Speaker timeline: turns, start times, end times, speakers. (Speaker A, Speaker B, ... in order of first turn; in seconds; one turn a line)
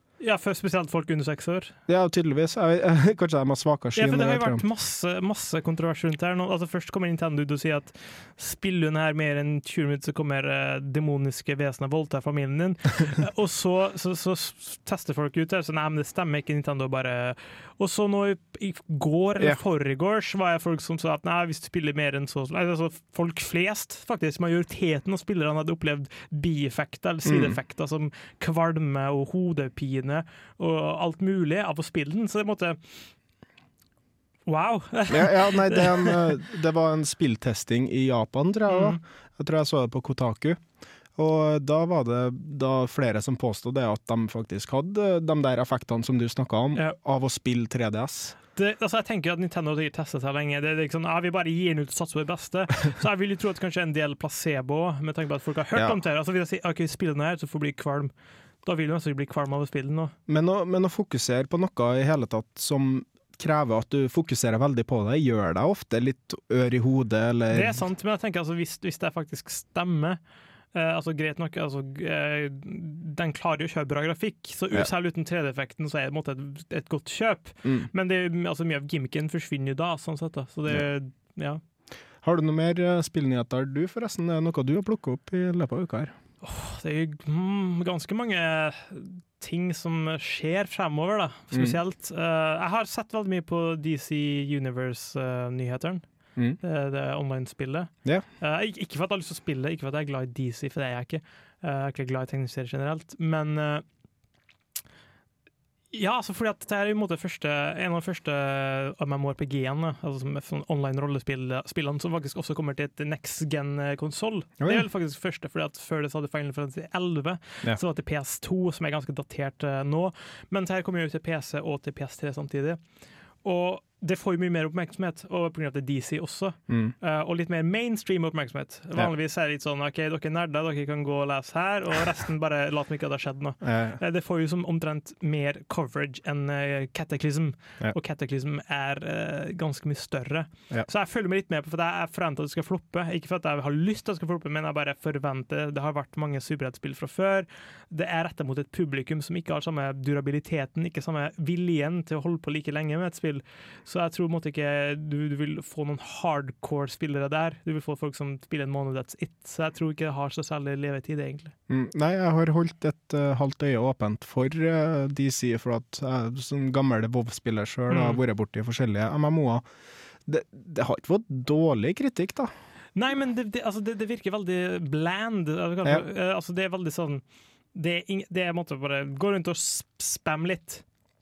Speaker A: 0.2-1.7
Speaker B: 1.9-4.6
Speaker A: 4.0-32.8
Speaker B: 27.2-27.6
Speaker A: 34.5-36.2
Speaker B: 35.1-40.6
Speaker A: 38.7-39.0
Speaker B: 41.2-48.4
Speaker A: 48.5-58.1
Speaker A: 58.6-60.1
Speaker B: 60.3-67.8
Speaker A: 67.5-70.2
Speaker A: 70.7-81.6
Speaker B: 77.6-77.9
Speaker B: 82.2-86.1
Speaker A: 86.4-96.1
Speaker B: 91.5-91.8
Speaker A: 96.6-103.8
Speaker A: 105.9-122.8
Speaker A: 123.4-161.5
Speaker B: 126.7-126.9
Speaker B: 133.6-134.0
Speaker B: 161.7-169.7
Speaker A: 167.9-168.2
Speaker B: 170.3-172.5
Speaker A: 173.0-177.2
Speaker A: 177.7-180.8